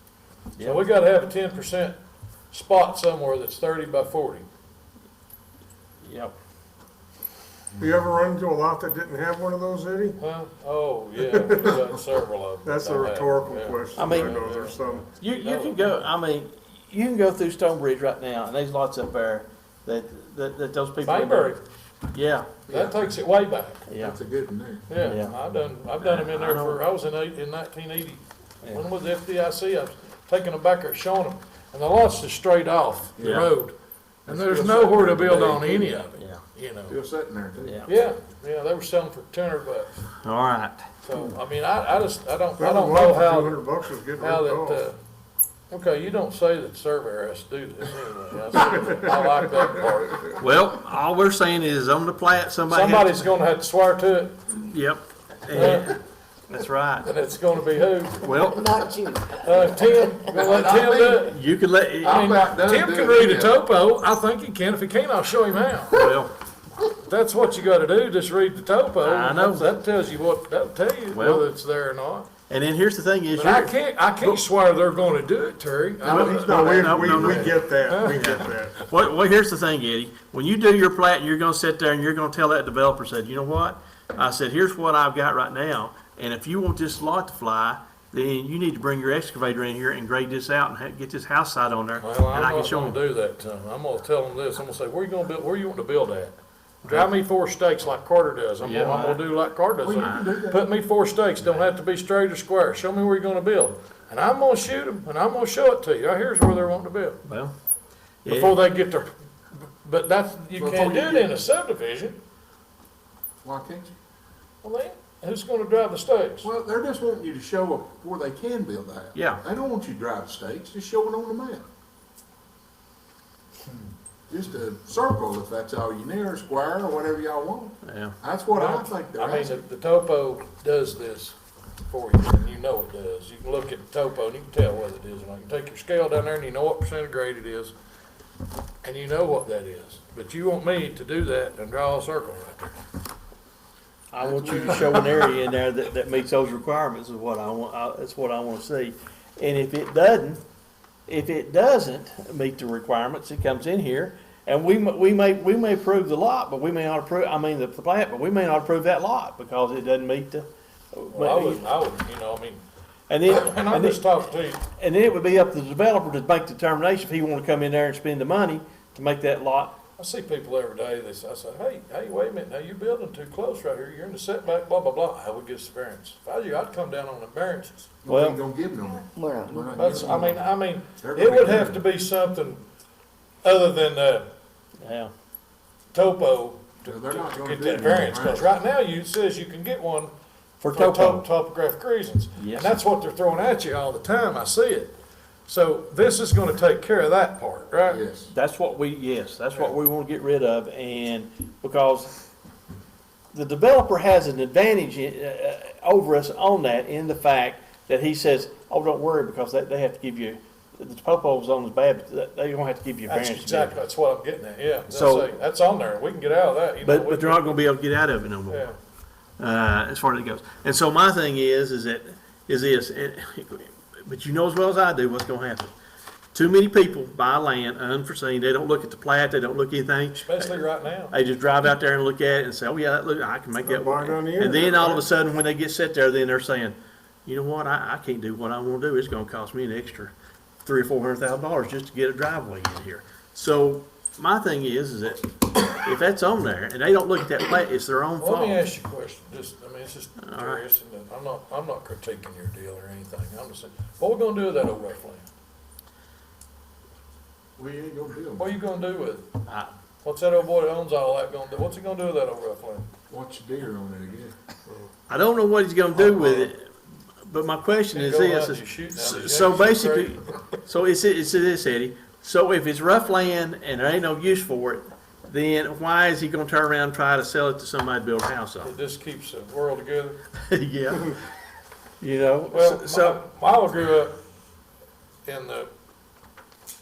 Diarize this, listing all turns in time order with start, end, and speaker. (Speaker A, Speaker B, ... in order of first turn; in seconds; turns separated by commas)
Speaker A: 0.6-0.8, Speaker B: 0.6-2.0, Speaker B: 2.5-4.5, Speaker A: 6.0-6.3, Speaker C: 7.8-10.2, Speaker B: 10.2-15.9, Speaker C: 11.2-11.8, Speaker C: 12.6-15.0, Speaker A: 13.9-14.4, Speaker A: 15.2-21.5, Speaker B: 21.0-21.6, Speaker A: 22.1-22.6, Speaker D: 22.7-23.0, Speaker B: 22.7-23.8, Speaker A: 23.9-24.2, Speaker D: 24.0-24.9, Speaker B: 24.9-33.7, Speaker A: 24.9-25.4, Speaker A: 26.0-26.8, Speaker D: 33.2-33.5, Speaker A: 33.2-33.5, Speaker D: 34.3-36.0, Speaker B: 34.3-36.9, Speaker A: 36.1-36.4, Speaker D: 36.9-37.8, Speaker A: 37.6-37.9, Speaker B: 37.9-40.0, Speaker A: 40.2-40.8, Speaker B: 41.0-45.0, Speaker C: 42.6-44.8, Speaker B: 45.7-50.4, Speaker C: 48.6-49.6, Speaker A: 50.4-53.2, Speaker B: 52.6-54.4, Speaker A: 54.5-57.1, Speaker B: 55.5-56.0, Speaker B: 57.0-58.4, Speaker A: 58.2-58.9, Speaker E: 58.3-60.2, Speaker B: 59.4-61.4, Speaker D: 60.3-61.3, Speaker A: 61.2-62.3, Speaker B: 62.0-66.1, Speaker D: 62.0-63.6, Speaker A: 65.9-66.3, Speaker B: 66.9-72.3, Speaker A: 69.0-69.7, Speaker A: 71.1-71.5, Speaker A: 72.5-74.4, Speaker B: 73.3-78.5, Speaker C: 76.0-78.8, Speaker A: 76.0-93.0, Speaker B: 92.0-107.2, Speaker A: 96.8-97.1, Speaker A: 98.6-99.2, Speaker D: 99.8-100.6, Speaker A: 107.2-107.5, Speaker A: 108.2-108.6, Speaker B: 108.2-109.1, Speaker B: 109.8-112.2, Speaker D: 110.5-111.3, Speaker D: 113.4-113.9, Speaker B: 114.6-116.5, Speaker D: 116.4-121.6, Speaker A: 119.1-119.4, Speaker D: 124.3-129.6, Speaker A: 127.8-128.2, Speaker B: 128.5-131.3, Speaker B: 131.9-137.7, Speaker B: 138.8-142.8, Speaker A: 144.1-150.4, Speaker D: 144.2-145.3, Speaker B: 144.7-145.0, Speaker A: 151.1-161.6, Speaker B: 161.1-162.6, Speaker A: 163.1-164.0, Speaker B: 163.3-164.6, Speaker A: 164.7-169.8, Speaker B: 170.0-177.9, Speaker D: 178.0-180.4, Speaker A: 178.1-178.4, Speaker E: 178.9-180.1, Speaker B: 179.7-182.6, Speaker D: 181.0-181.8, Speaker B: 183.4-184.3, Speaker A: 184.8-185.1, Speaker B: 185.9-190.1, Speaker D: 186.8-188.5, Speaker A: 190.6-191.2, Speaker B: 190.7-194.9, Speaker A: 192.4-192.8, Speaker B: 195.5-198.0, Speaker D: 197.9-198.3, Speaker A: 198.3-202.1, Speaker A: 203.3-213.7, Speaker B: 213.1-217.4, Speaker A: 214.9-215.3, Speaker A: 216.8-218.7, Speaker B: 218.5-218.7, Speaker A: 219.4-225.7, Speaker A: 226.3-236.7, Speaker B: 230.1-231.1, Speaker C: 233.6-235.0, Speaker A: 237.2-240.1, Speaker A: 240.6-248.6, Speaker B: 248.2-255.2, Speaker A: 250.2-250.6, Speaker D: 257.6-258.5, Speaker B: 258.4-259.3, Speaker A: 259.4-259.7, Speaker B: 260.0-262.9, Speaker D: 263.1-264.3, Speaker A: 265.1-266.7, Speaker B: 266.0-266.5, Speaker A: 267.3-278.7, Speaker B: 267.9-270.2, Speaker B: 278.6-280.2, Speaker A: 280.4-281.2, Speaker A: 282.0-283.2, Speaker B: 282.5-284.2, Speaker B: 285.2-285.7